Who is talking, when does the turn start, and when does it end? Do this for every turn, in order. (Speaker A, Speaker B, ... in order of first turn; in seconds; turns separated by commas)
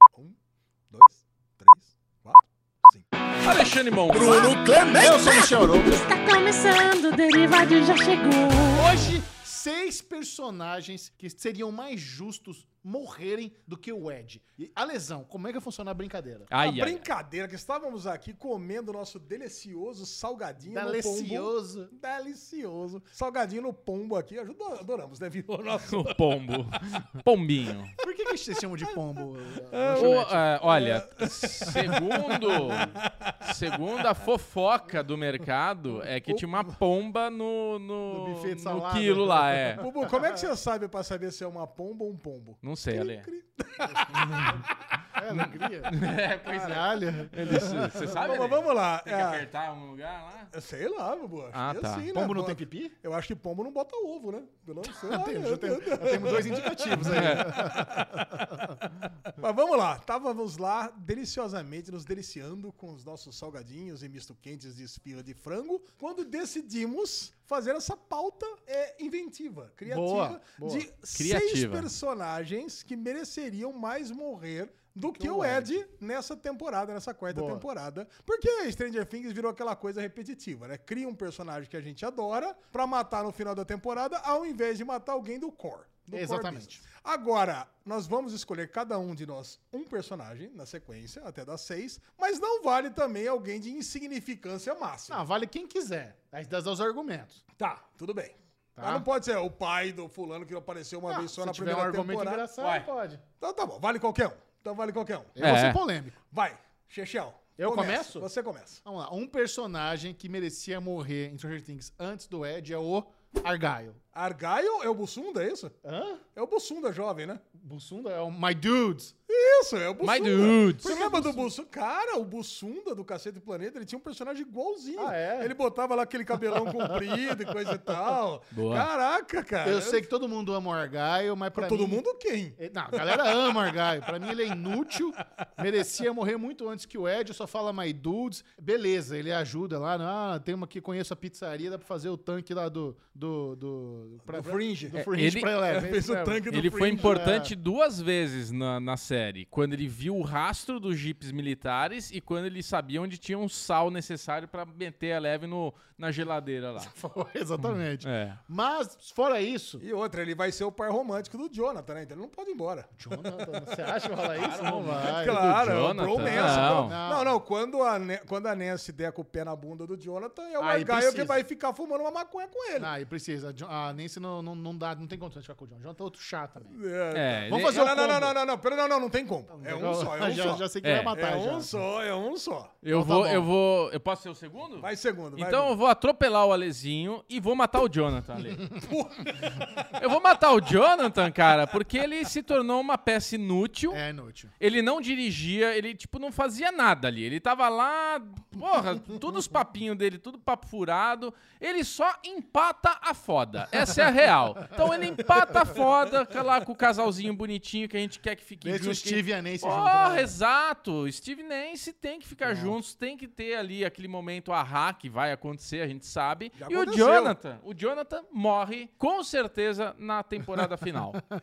Speaker A: 0.9-3.1, Speaker B: 3.4-5.0, Speaker C: 4.1-6.1, Speaker D: 4.9-9.1, Speaker C: 8.7-16.5, Speaker B: 16.5-17.1, Speaker A: 16.6-26.2, Speaker C: 20.6-21.9, Speaker B: 25.9-27.9, Speaker C: 28.0-30.5, Speaker A: 29.7-33.5, Speaker B: 29.9-39.8, Speaker A: 36.3-36.8, Speaker C: 38.1-40.1, Speaker A: 39.8-45.0, Speaker B: 42.6-43.3, Speaker C: 43.9-44.6, Speaker B: 44.2-44.5, Speaker C: 45.1-48.1, Speaker B: 45.3-50.5, Speaker A: 47.4-49.5, Speaker A: 50.5-58.5, Speaker B: 51.5-52.1, Speaker C: 52.1-52.9, Speaker C: 54.8-58.8, Speaker B: 57.0-57.5, Speaker A: 59.4-95.2, Speaker C: 69.9-70.9, Speaker B: 71.1-71.9, Speaker C: 75.1-75.8, Speaker C: 77.3-77.7, Speaker C: 86.1-86.8, Speaker C: 95.1-97.4, Speaker A: 97.6-102.5, Speaker C: 98.8-99.1, Speaker C: 101.1-103.2, Speaker B: 102.6-102.9, Speaker A: 103.4-105.5, Speaker C: 105.4-106.2, Speaker B: 105.4-105.8, Speaker A: 106.3-108.8, Speaker C: 107.6-108.3, Speaker C: 108.8-114.0, Speaker A: 114.1-115.8, Speaker C: 115.8-116.2, Speaker A: 116.3-117.4, Speaker C: 117.5-119.1, Speaker A: 119.3-130.1, Speaker B: 120.0-121.0, Speaker C: 120.8-121.5, Speaker C: 125.0-125.5, Speaker C: 126.6-127.3, Speaker B: 128.5-128.9, Speaker C: 129.6-132.0, Speaker A: 131.6-133.7, Speaker C: 132.6-147.5, Speaker A: 144.3-147.2, Speaker B: 145.1-145.6, Speaker B: 146.5-156.9, Speaker C: 156.8-159.8, Speaker B: 158.0-158.4, Speaker A: 159.8-163.7, Speaker C: 163.0-165.5, Speaker B: 164.3-167.0, Speaker A: 164.9-172.9, Speaker C: 166.2-167.3, Speaker C: 170.6-171.4, Speaker C: 172.8-176.8, Speaker A: 176.7-182.7, Speaker B: 177.1-177.8, Speaker C: 177.5-178.4, Speaker C: 179.5-181.7, Speaker B: 180.8-181.2, Speaker B: 182.8-188.7, Speaker C: 182.9-183.5, Speaker A: 184.8-185.8, Speaker A: 188.8-189.9, Speaker B: 189.9-194.0, Speaker C: 193.9-194.5, Speaker B: 194.6-221.2, Speaker C: 208.6-210.3, Speaker C: 212.5-212.7, Speaker A: 216.6-217.4